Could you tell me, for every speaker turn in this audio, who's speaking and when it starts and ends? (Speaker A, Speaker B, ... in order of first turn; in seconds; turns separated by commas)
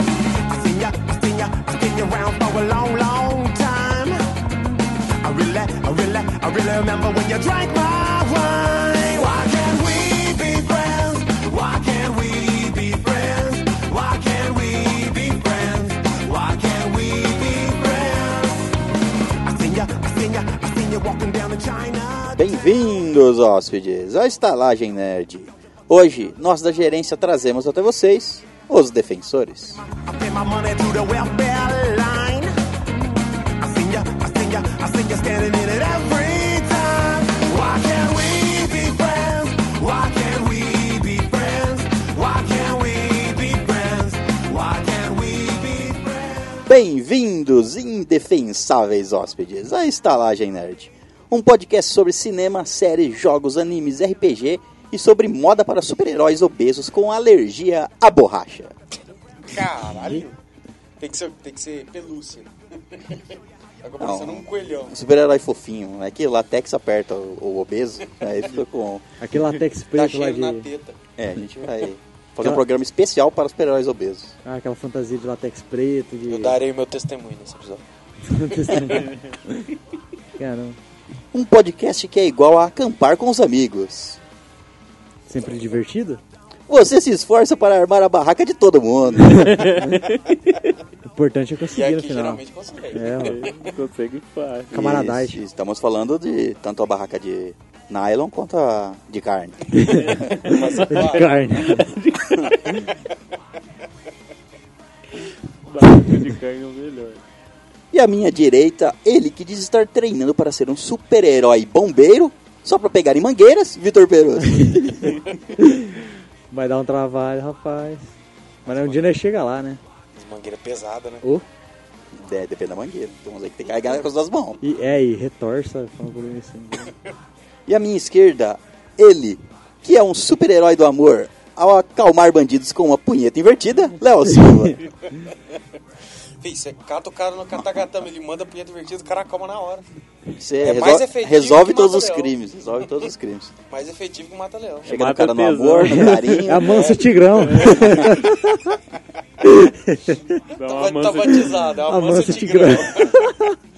Speaker A: 0.5-4.2, Speaker A: 5.2-18.8, Speaker A: 19.4-22.7, Speaker B: 22.4-29.8, Speaker A: 30.0-32.5, Speaker A: 33.6-46.7, Speaker B: 46.6-58.7, Speaker C: 59.4-60.3, Speaker C: 61.0-63.2, Speaker C: 63.8-64.9, Speaker B: 64.0-69.0, Speaker D: 69.2-70.7, Speaker C: 69.9-71.0, Speaker B: 71.2-74.3, Speaker D: 74.4-76.6, Speaker C: 76.3-77.8, Speaker D: 78.2-79.7, Speaker E: 79.0-79.3, Speaker D: 80.4-80.8, Speaker B: 81.3-84.2, Speaker D: 85.3-86.2, Speaker B: 86.7-89.7, Speaker D: 89.3-89.9, Speaker E: 89.4-90.4, Speaker D: 91.1-93.5, Speaker C: 91.7-93.7, Speaker E: 93.1-94.8, Speaker B: 94.7-100.5, Speaker D: 94.7-95.4, Speaker D: 99.7-101.9, Speaker C: 100.3-101.4, Speaker E: 100.5-102.9, Speaker E: 105.6-107.2, Speaker B: 107.9-115.3, Speaker D: 114.6-114.9, Speaker D: 115.5-115.9, Speaker D: 116.5-118.1, Speaker C: 118.6-119.1, Speaker D: 118.7-119.8, Speaker C: 120.1-121.2, Speaker B: 122.1-124.6, Speaker D: 124.6-126.9, Speaker B: 127.7-134.8, Speaker C: 136.4-139.8, Speaker B: 140.4-143.5, Speaker C: 140.6-142.3, Speaker C: 143.7-144.9, Speaker B: 144.8-146.9, Speaker E: 144.8-148.1, Speaker D: 145.8-148.8, Speaker C: 146.6-148.3, Speaker B: 147.8-148.1, Speaker D: 149.4-150.4, Speaker C: 150.5-153.3, Speaker E: 150.5-151.8, Speaker D: 151.8-153.5